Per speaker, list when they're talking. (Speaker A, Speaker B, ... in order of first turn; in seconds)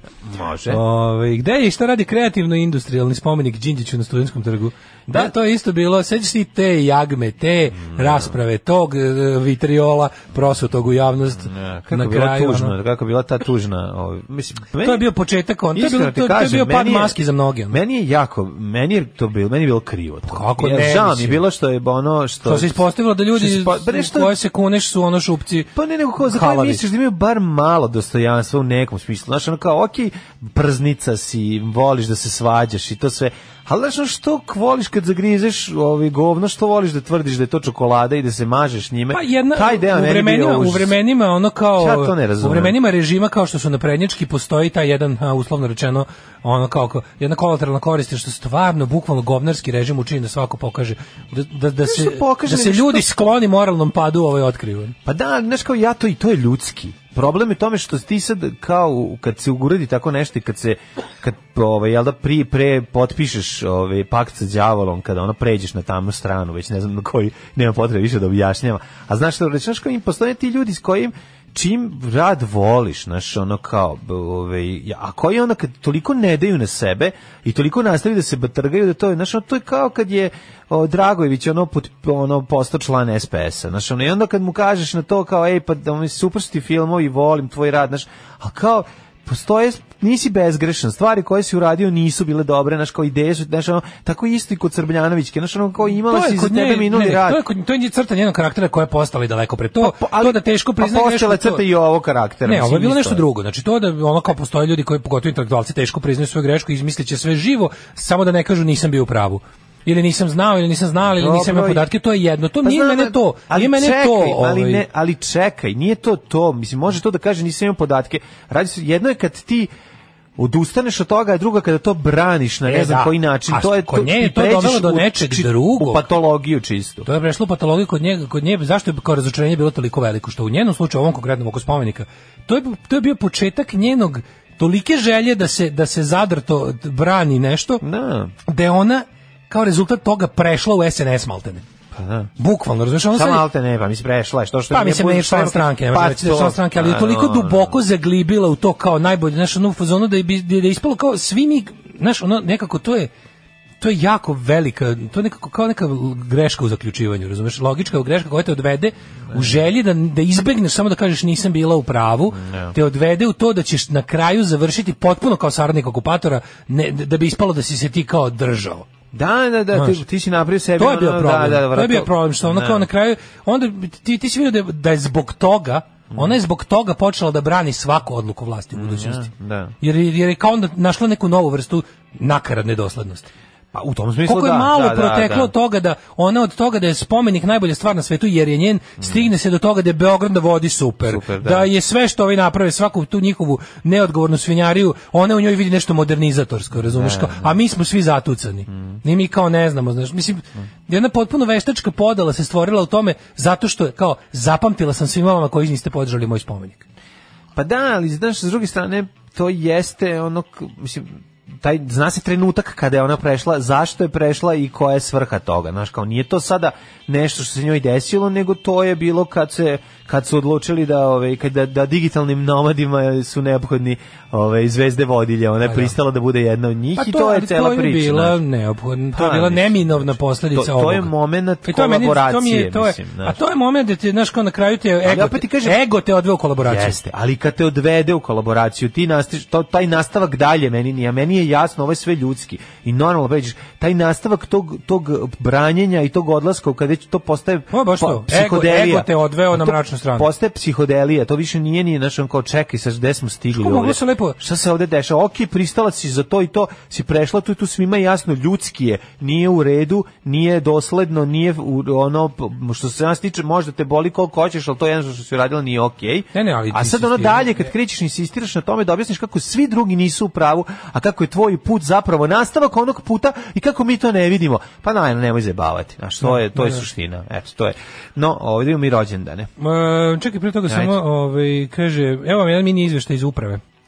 Speaker A: 0.2-0.8, 7.8-8.4, 11.4-15.1, 15.7-17.2, 17.7-22.8, 23.4-24.3, 25.8-41.0, 41.8-42.7, 51.8-53.1, 55.1-97.4, 99.8-103.2, 111.1-111.8, 112.6-119.7, 120.4-127.1, 137.8-138.3, 141.9-142.3, 143.1-147.8, 162.3-162.8, 169.1-172.9, 176.1-176.4, 178.8-179.7, 183.7-185.5, 189.0-189.3, 191.1-191.7, 196.8-197.6, 198.7-199.0, 207.6-228.4, 229.1-233.4, 235.1-235.8, 236.6-279.5, 280.7-281.0
Speaker B: 0.7-12.7, 14.8-17.8, 20.3-21.4, 22.4-25.7, 26.2-26.8, 39.1-55.0, 96.1-101.6, 102.5-114.8, 122.7-126.1, 127.1-137.8, 138.5-141.6, 142.4-143.4, 144.7-153.1, 153.8-168.9, 169.7-170.0, 170.8-179.3, 179.8-183.3, 184.3-206.8, 225.7-225.9, 227.0-231.1, 231.7-237.0, 247.7-250.3, 253.5-254.4, 266.4-267.7, 276.2-276.9, 279.6-283.6